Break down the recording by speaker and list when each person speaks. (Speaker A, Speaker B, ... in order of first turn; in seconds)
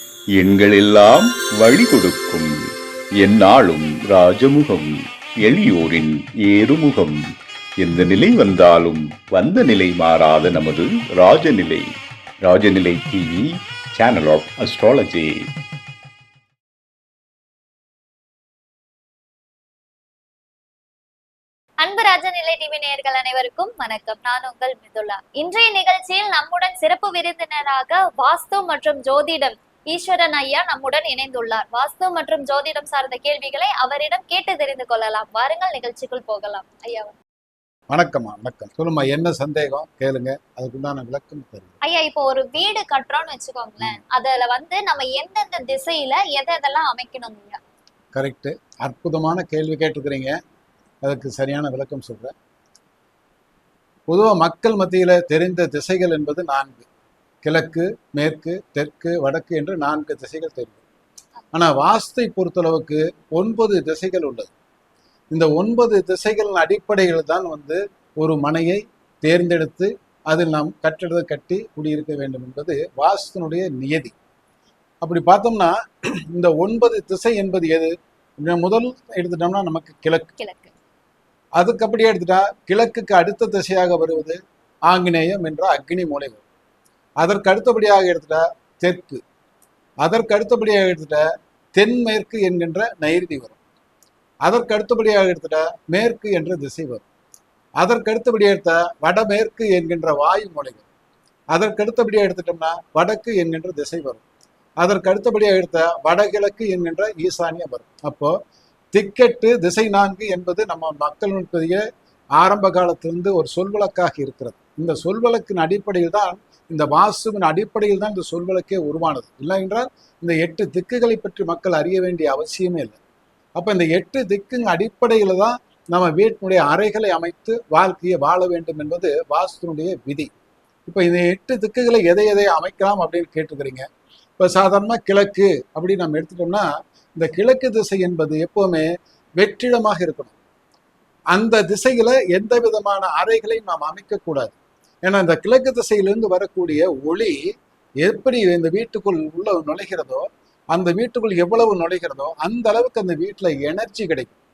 Speaker A: 0.3-2.5, 3.2-7.2, 7.8-11.9, 12.4-15.4
Speaker B: 21.8-37.1, 41.8-47.6, 80.4-80.7
Speaker C: 37.9-41.7, 48.1-50.4, 51.0-52.3, 54.1-56.9, 57.4-60.8, 61.5-64.5, 65.3-74.1, 75.0-75.7, 76.3-80.3, 81.6-84.4, 84.9-86.4, 87.2-89.2, 90.0-93.6, 94.4-97.0, 97.8-100.8, 101.5-104.2, 104.8-108.3, 108.9-111.8, 112.4-123.0, 123.5-130.3, 130.9-133.8, 134.4-138.9, 139.4-140.3, 141.3-147.4, 148.0-154.3